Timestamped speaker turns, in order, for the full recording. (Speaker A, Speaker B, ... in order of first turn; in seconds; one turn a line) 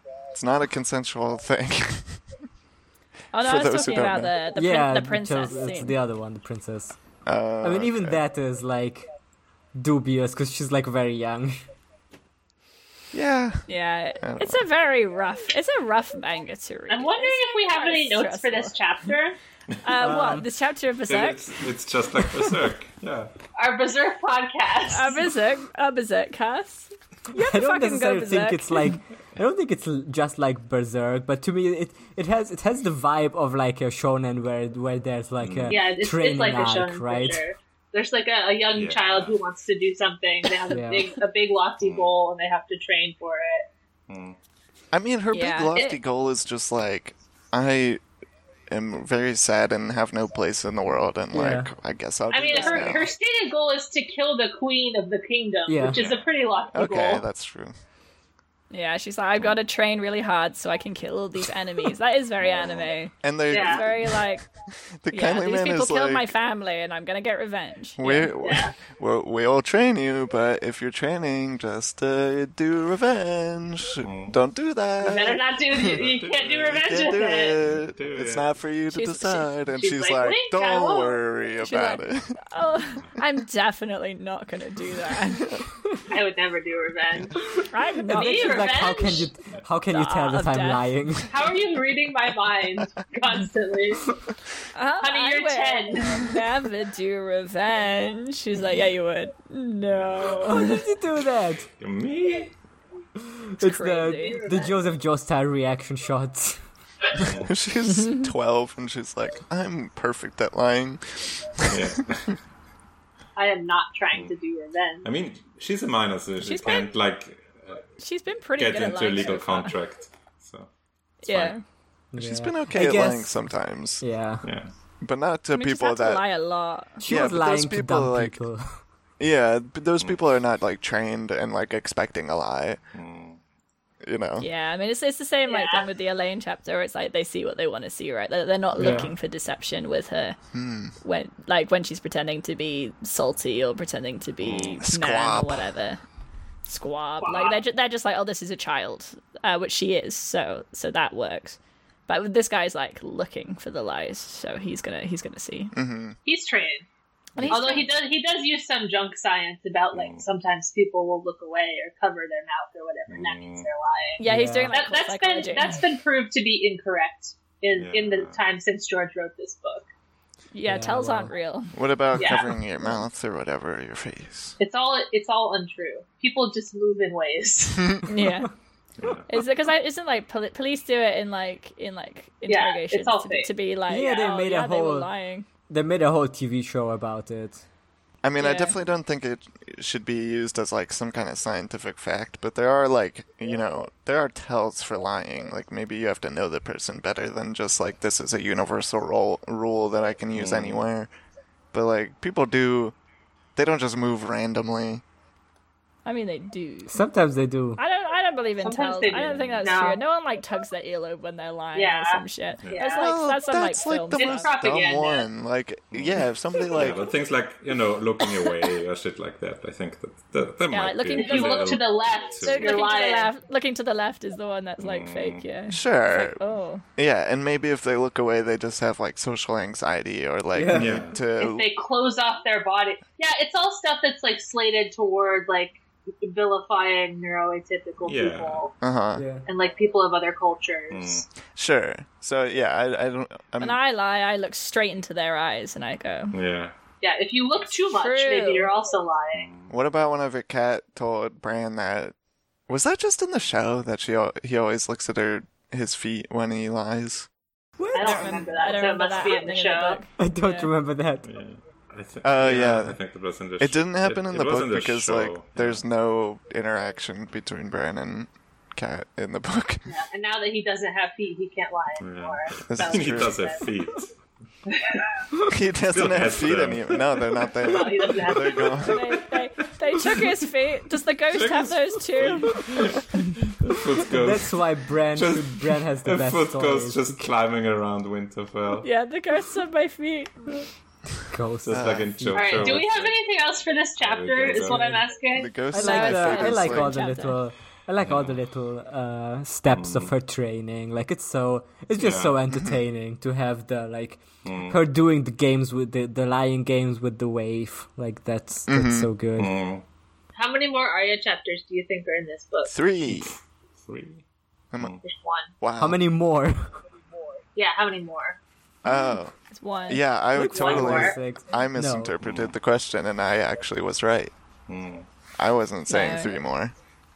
Speaker A: 0.3-2.2
Speaker B: 3.3-6.0
Speaker A: 3.4-4.3
Speaker C: 4.5-7.0
Speaker A: 7.2-8.2
Speaker C: 7.6-9.1
Speaker C: 9.7-11.6
Speaker A: 13.1-13.7
Speaker B: 13.7-18.8
Speaker A: 14.2-14.6
Speaker D: 16.9-19.4
Speaker B: 19.8-21.6
Speaker C: 20.0-20.5
Speaker E: 21.1-23.3
Speaker D: 23.6-25.2
Speaker B: 24.9-29.0
Speaker C: 27.3-37.4
Speaker E: 35.4-35.8
Speaker D: 35.7-43.7
Speaker E: 38.7-39.4
Speaker C: 40.7-41.1
Speaker E: 41.8-42.1
Speaker E: 44.1-44.4
Speaker A: 44.9-48.0
Speaker B: 45.3-45.9
Speaker A: 48.7-53.1
Speaker C: 51.3-51.7
Speaker D: 52.3-57.2
Speaker B: 52.5-52.9
Speaker C: 55.6-56.0
Speaker E: 55.9-56.3
Speaker A: 56.7-57.8
Speaker B: 58.7-64.5
Speaker E: 62.4-62.9
Speaker A: 63.2-64.3
Speaker D: 63.5-63.8
Speaker A: 65.0-66.2
Speaker B: 65.1-68.3
Speaker A: 68.0-76.0
Speaker D: 68.4-68.7
Speaker E: 74.0-74.3
Speaker D: 75.0-77.5
Speaker E: 75.8-78.5
Speaker A: 76.8-82.4
Speaker B: 78.9-79.5
Speaker D: 79.7-81.2
Speaker B: 81.6-85.5
Speaker D: 86.1-87.4
Speaker B: 87.7-88.8
Speaker C: 88.1-91.4
Speaker D: 88.1-89.3
Speaker B: 89.9-90.9
Speaker D: 91.3-94.0
Speaker B: 94.7-100.9
Speaker D: 95.0-96.3
Speaker E: 99.9-100.7
Speaker C: 100.5-101.7
Speaker E: 101.8-102.5
Speaker C: 103.3-106.6
Speaker B: 103.6-104.4
Speaker D: 104.2-104.9
Speaker E: 107.2-107.5
Speaker A: 107.4-111.8
Speaker B: 108.0-108.2
Speaker E: 111.7-112.4
Speaker D: 113.3-115.0
Speaker E: 115.0-117.9
Speaker B: 116.4-116.9
Speaker B: 118.0-119.7
Speaker E: 118.6-120.7
Speaker E: 121.2-121.5
Speaker B: 121.2-121.6
Speaker C: 122.1-123.3
Speaker A: 122.2-124.0
Speaker C: 124.0-124.5
Speaker E: 124.4-124.7
Speaker A: 125.0-126.2
Speaker B: 125.5-127.0
Speaker C: 127.0-128.8
Speaker A: 127.0-128.4
Speaker A: 129.2-132.8
Speaker E: 132.9-133.4
Speaker A: 134.0-134.5
Speaker B: 134.4-140.4
Speaker D: 135.5-135.9
Speaker E: 138.8-139.1
Speaker A: 140.5-140.9
Speaker B: 141.0-146.0
Speaker E: 144.4-144.8
Speaker A: 144.7-145.7
Speaker B: 146.6-155.7
Speaker D: 147.2-147.6
Speaker A: 155.7-156.2
Speaker D: 156.2-156.8
Speaker C: 157.4-157.8
Speaker B: 157.4-157.9
Speaker D: 157.5-169.8
Speaker E: 159.9-160.3
Speaker E: 163.1-163.7
Speaker B: 164.2-165.8
Speaker C: 164.2-164.8
Speaker E: 167.7-168.4
Speaker B: 170.5-171.7
Speaker C: 170.6-171.3
Speaker A: 171.7-174.6
Speaker D: 172.2-172.6
Speaker D: 174.6-178.0
Speaker B: 178.1-178.5
Speaker E: 179.0-179.3
Speaker B: 179.3-185.4
Speaker D: 182.5-183.5
Speaker C: 183.9-185.1
Speaker C: 185.7-187.6
Speaker A: 188.2-201.1
Speaker B: 188.4-188.8
Speaker E: 200.3-200.8
Speaker A: 201.7-202.9
Speaker A: 203.6-205.0
Speaker B: 206.0-207.0
Speaker C: 206.9-207.8
Speaker B: 207.8-214.5
Speaker D: 208.6-210.0
Speaker E: 209.2-209.7
Speaker D: 211.7-213.1
Speaker A: 212.9-217.0
Speaker D: 214.2-215.3
Speaker E: 215.9-222.8
Speaker B: 220.7-221.8
Speaker D: 221.2-223.3
Speaker B: 222.4-226.8
Speaker E: 224.8-225.4
Speaker A: 225.7-226.4
Speaker A: 226.9-231.7
Speaker C: 230.5-231.1
Speaker E: 230.7-231.2
Speaker D: 231.4-238.7
Speaker E: 238.0-238.6
Speaker A: 238.8-239.2
Speaker C: 239.2-239.4
Speaker D: 239.4-241.2
Speaker E: 240.9-241.3
Speaker A: 241.5-243.8
Speaker B: 243.6-246.3
Speaker E: 246.3-246.7
Speaker D: 247.0-249.5
Speaker B: 248.0-248.7
Speaker E: 249.3-249.8
Speaker A: 249.7-252.1
Speaker A: 252.7-257.3
Speaker C: 257.8-258.4
Speaker D: 257.9-260.0
Speaker A: 257.9-258.5
Speaker B: 257.9-260.7
Speaker C: 260.2-261.3
Speaker E: 261.2-265.9
Speaker A: 262.2-263.0
Speaker A: 263.6-269.9
Speaker D: 269.9-273.6
Speaker E: 272.0-274.1
Speaker A: 272.7-273.4
Speaker D: 274.7-275.1
Speaker A: 275.4-279.2
Speaker E: 275.9-278.4
Speaker D: 277.6-278.9
Speaker B: 278.8-282.6
Speaker E: 280.0-280.2
Speaker E: 281.3-288.9
Speaker C: 284.1-287.2
Speaker B: 288.8-290.5
Speaker C: 291.3-292.9
Speaker E: 291.6-293.3
Speaker A: 291.7-292.1
Speaker D: 292.3-295.6
Speaker E: 294.0-295.1
Speaker C: 294.6-295.0
Speaker A: 295.3-296.9
Speaker C: 295.7-309.5
Speaker B: 295.8-297.4
Speaker E: 298.0-298.4
Speaker E: 299.7-300.1
Speaker E: 302.0-302.4
Speaker E: 304.4-304.8
Speaker A: 308.7-309.1
Speaker E: 309.4-309.8
Speaker D: 310.3-312.7
Speaker A: 312.6-313.3
Speaker E: 313.0-314.2
Speaker A: 314.7-315.0
Speaker D: 315.0-315.5
Speaker A: 315.6-316.0
Speaker C: 315.8-316.7
Speaker D: 317.6-318.4
Speaker A: 318.8-319.3
Speaker B: 319.5-320.0
Speaker A: 319.9-324.3
Speaker C: 320.4-322.1
Speaker D: 320.4-321.2
Speaker E: 322.2-322.6
Speaker E: 324.7-325.1
Speaker A: 325.4-326.7
Speaker B: 325.9-326.4